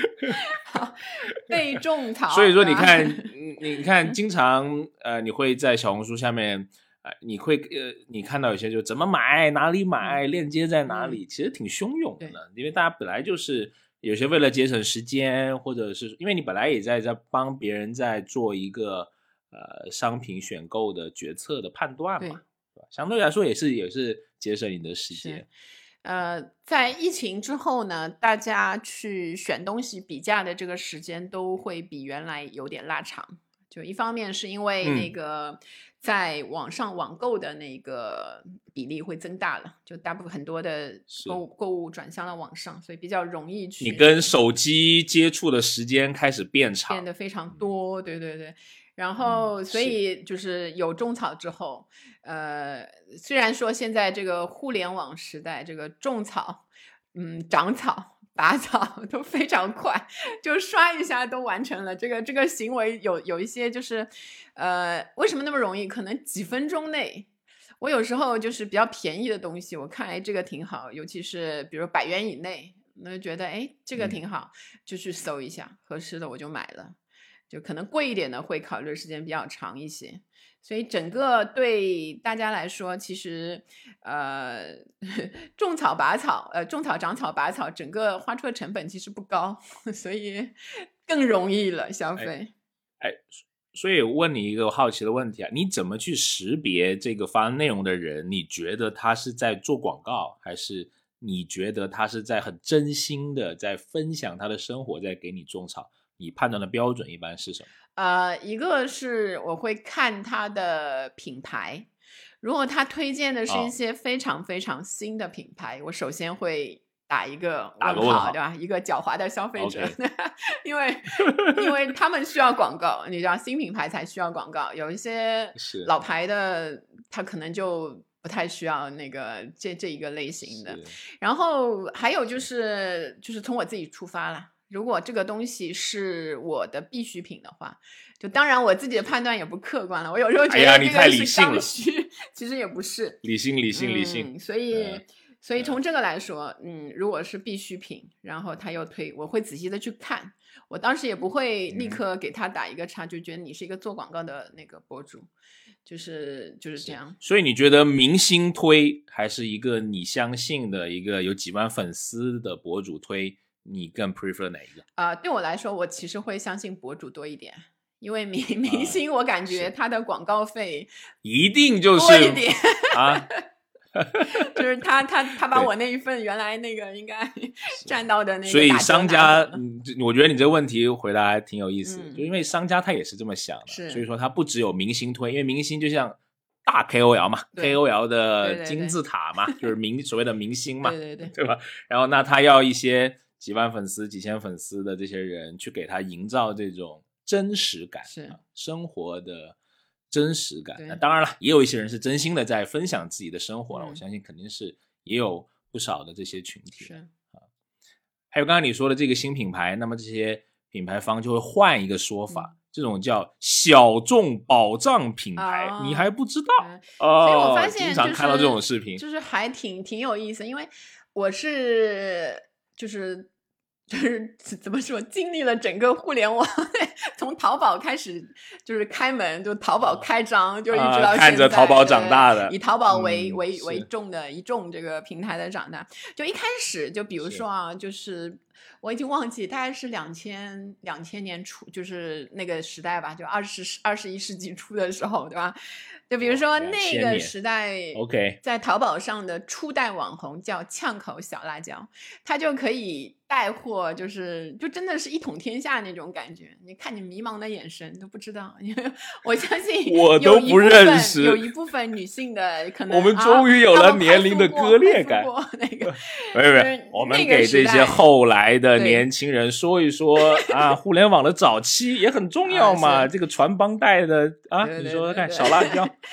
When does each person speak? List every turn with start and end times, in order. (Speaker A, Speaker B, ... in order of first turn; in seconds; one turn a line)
Speaker A: 0.3-3.3
Speaker B: 2.3-25.4
Speaker A: 10.9-11.2
Speaker A: 25.1-25.4
Speaker A: 26.0-44.3
Speaker B: 34.8-35.1
Speaker B: 41.1-41.4
Speaker B: 43.8-47.0
Speaker A: 46.9-67.3
Speaker B: 49.2-49.9
Speaker A: 67.8-77.0
Speaker A: 77.5-92.5
Speaker B: 93.0-107.7
Speaker A: 108.0-111.9
Speaker A: 112.4-143.2
Speaker B: 117.8-118.3
Speaker B: 119.6-120.0
Speaker B: 125.6-125.9
Speaker B: 130.5-130.9
Speaker B: 140.5-141.7
Speaker B: 143.2-145.0
Speaker A: 143.7-155.3
Speaker B: 151.7-152.0
Speaker A: 155.8-157.2
Speaker B: 156.8-164.8
Speaker A: 164.9-170.9
Speaker B: 168.7-169.7
Speaker B: 171.2-173.3
Speaker A: 171.9-173.4
Speaker B: 173.9-174.4
Speaker A: 174.2-179.6
Speaker B: 178.5-199.6
Speaker A: 181.8-182.2
Speaker A: 183.7-184.0
Speaker A: 188.4-188.9
Speaker A: 190.8-191.3
Speaker A: 198.0-198.4
Speaker B: 200.1-206.9
Speaker A: 200.8-201.0
Speaker A: 203.7-204.0
Speaker A: 206.8-207.1
Speaker B: 208.3-219.0
Speaker A: 215.3-223.3
Speaker A: 223.9-245.6
Speaker B: 230.7-233.8
Speaker A: 246.1-268.0
Speaker B: 246.2-247.3
Speaker B: 247.9-248.4
Speaker B: 259.9-261.4
Speaker B: 262.9-265.3
Speaker B: 265.8-275.9
Speaker A: 268.8-269.0
Speaker A: 270.2-270.6
Speaker A: 272.4-273.1
Speaker A: 274.6-275.9